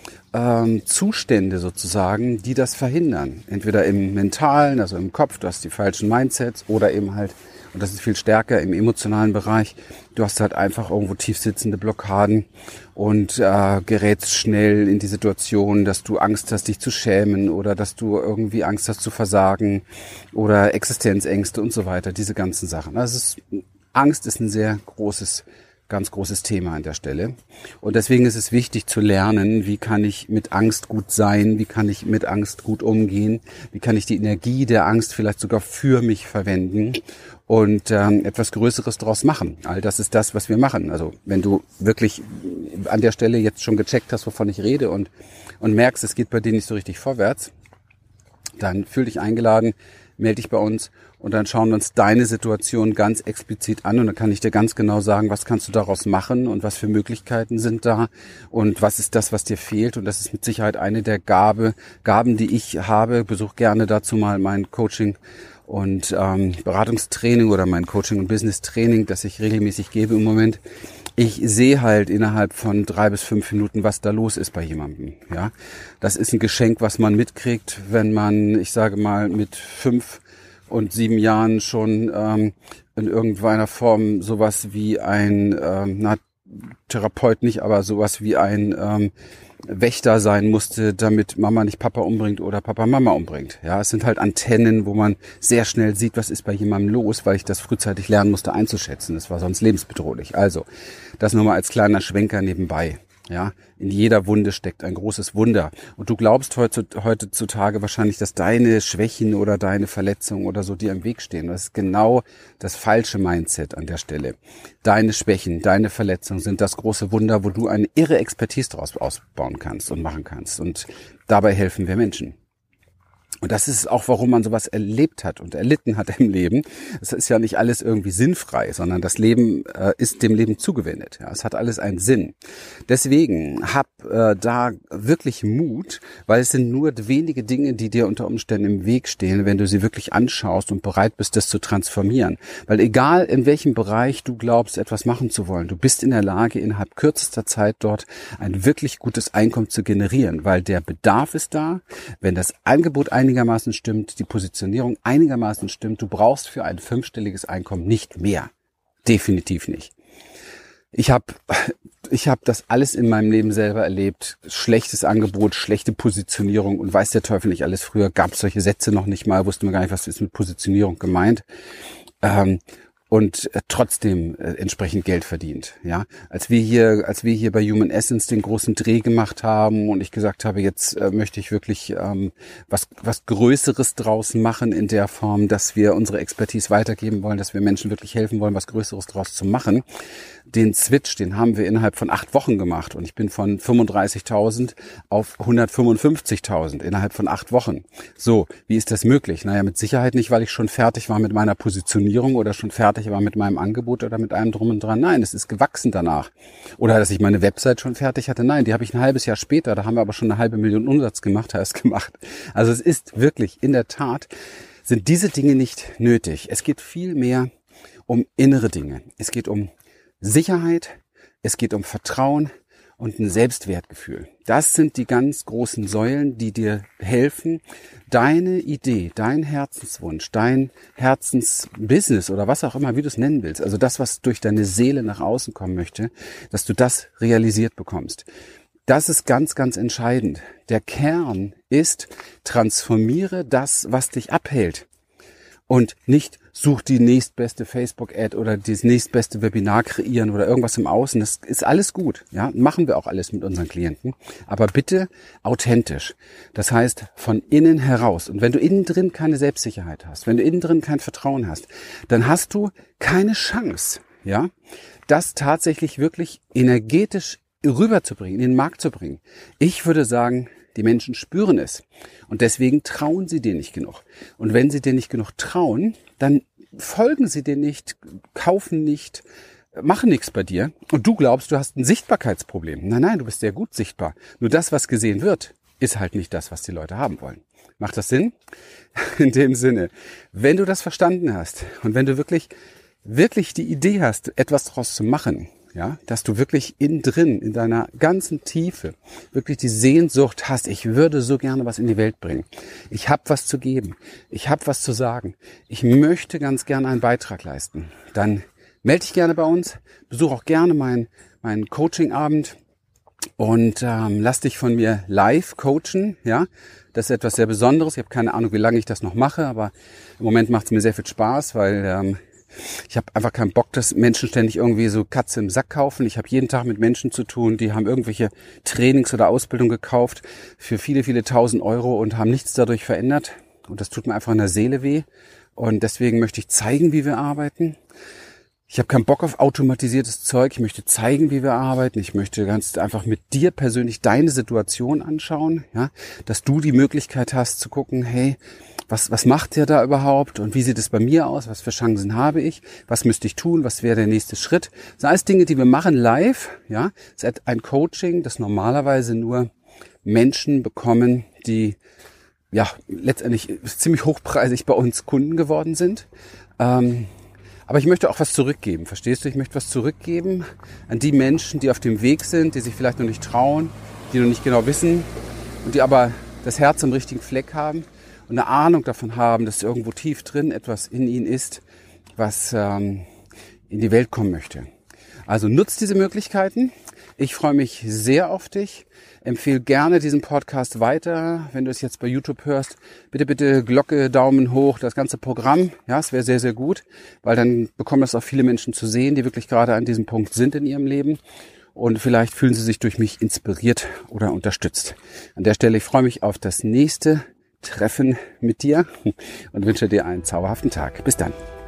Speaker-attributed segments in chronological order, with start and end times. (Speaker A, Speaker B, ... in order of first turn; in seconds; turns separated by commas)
Speaker A: 0.3-45.1, Speaker A: 45.6-47.5, Speaker A: 48.6-70.6, Speaker A: 71.2-89.1, Speaker A: 89.6-100.7, Speaker A: 101.2-122.3, Speaker A: 123.4-132.3, Speaker A: 132.9-158.5, Speaker A: 159.0-159.9, Speaker A: 160.9-171.4, Speaker A: 172.2-189.8, Speaker A: 190.5-214.3, Speaker A: 214.8-217.5, Speaker A: 218.1-238.2, Speaker A: 238.9-244.9, Speaker A: 245.7-264.5, Speaker A: 265.1-288.3, Speaker A: 288.9-292.5, Speaker A: 293.0-312.6, Speaker A: 313.4-337.8, Speaker A: 338.7-359.5, Speaker A: 360.0-361.8, Speaker A: 362.5-366.1, Speaker A: 366.6-367.1, Speaker A: 367.7-375.1, Speaker A: 375.6-381.6, Speaker A: 382.2-383.1, Speaker A: 383.7-384.7, Speaker A: 385.3-401.2, Speaker A: 401.7-411.4